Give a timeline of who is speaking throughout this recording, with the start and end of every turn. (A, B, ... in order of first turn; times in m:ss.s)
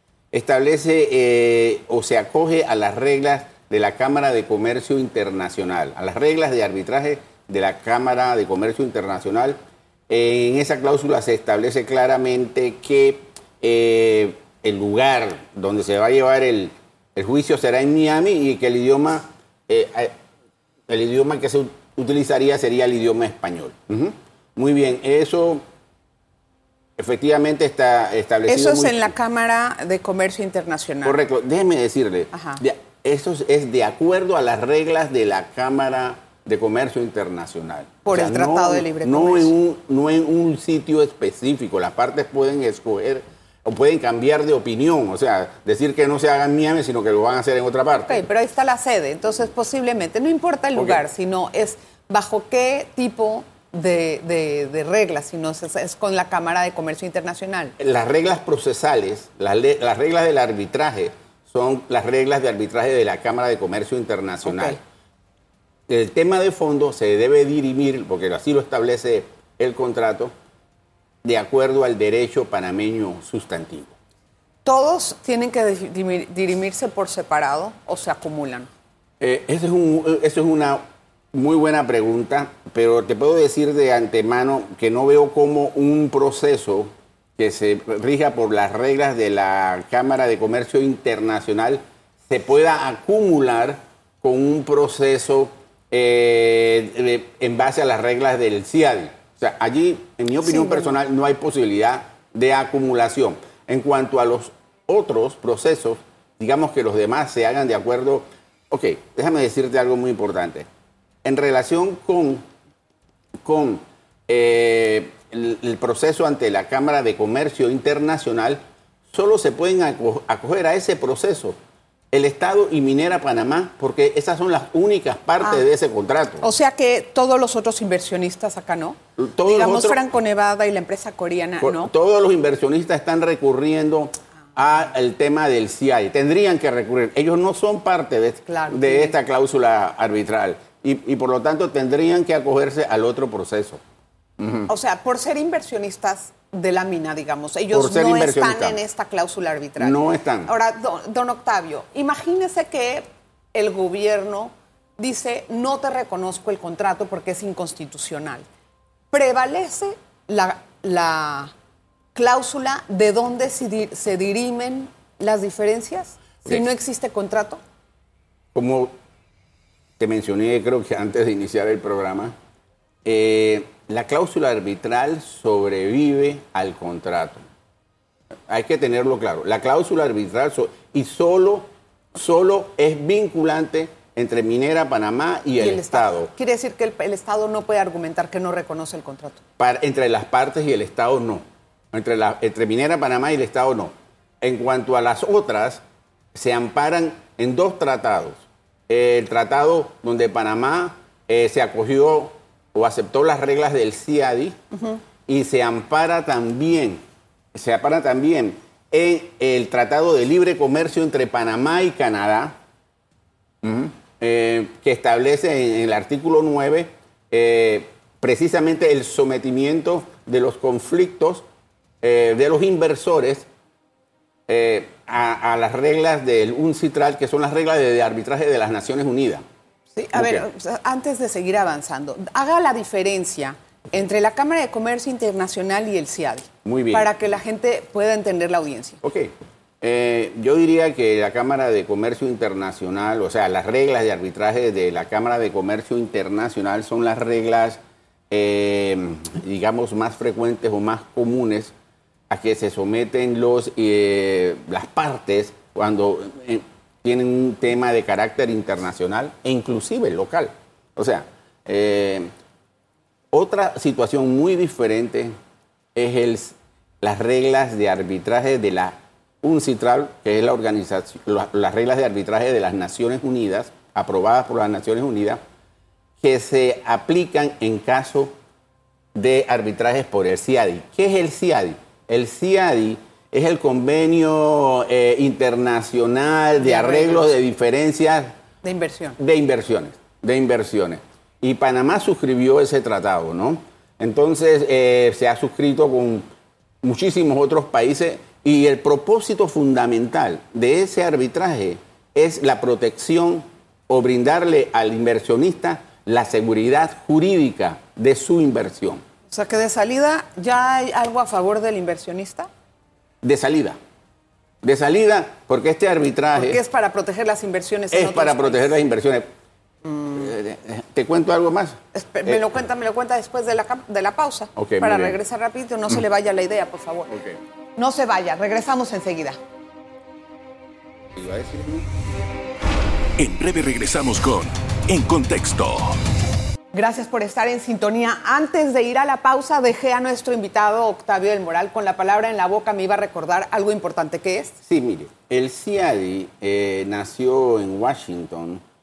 0:00.3-0:09.6 A
0:10.1-0:20.2 A
0:20.9-0:25.6 A
0:27.0-0:29.1 A
0:28.5-0:31.2 B
0:31.0-0:48.2 A
0:32.3-0:32.6 B
0:38.0-0:39.5 B
0:47.9-0:57.8 B
0:50.8-0:51.0 A
0:57.8-1:04.8 A
1:04.4-1:04.8 B
1:05.9-1:10.3 A
1:11.2-1:14.0 A
1:14.6-1:18.7 B
1:19.2-1:20.8 A
1:21.3-1:50.7 A
1:51.2-1:52.4 A
1:53.4-1:58.6 A
1:59.1-2:01.6 A
2:02.1-2:06.4 A
2:06.4-2:11.9 B
2:09.2-2:10.0 A
2:11.6-2:23.8 A
2:18.5-2:19.2 B
2:24.4-2:24.7 A
2:24.7-2:38.5 B
2:27.7-2:28.8 A
2:29.8-2:30.5 A
2:39.1-2:41.5 B
2:42.2-2:47.6 B
2:48.5-2:48.9 A
2:50.0-2:52.4 A
2:53.0-2:57.4 A
2:58.5-3:06.3 A
3:05.6-3:09.4 B
3:09.6-3:15.8 A
3:16.3-3:24.6 A
3:24.7-3:25.0 B
3:25.3-3:27.0 A
3:27.5-3:32.6 A
3:33.6-3:41.4 A
3:42.0-3:43.5 A
3:44.5-3:49.4 A
3:49.9-3:59.0 B
3:50.2-3:50.4 A
3:56.6-3:57.1 A
3:59.0-4:07.8 A
4:08.3-4:11.7 A
4:12.3-4:22.3 A
4:23.3-4:25.4 A
4:26.0-4:35.4 A
4:36.2-4:38.3 A
4:39.1-4:48.4 A
4:46.6-4:47.3 B
4:48.6-4:49.2 B
4:49.2-4:56.3 A
4:56.8-5:09.0 A
5:09.3-5:12.5 B
5:13.2-5:13.8 A
5:14.6-5:16.6 A
5:16.3-5:18.7 B
5:17.9-5:19.3 A
5:19.8-5:20.2 B
5:20.1-5:22.5 A
5:21.9-5:27.2 B
5:24.6-5:25.2 A
5:27.1-5:27.4 A
5:27.8-5:29.4 B
5:31.2-5:31.9 A
5:33.2-5:36.0 C
5:36.7-5:44.6 B
5:44.6-5:48.6 A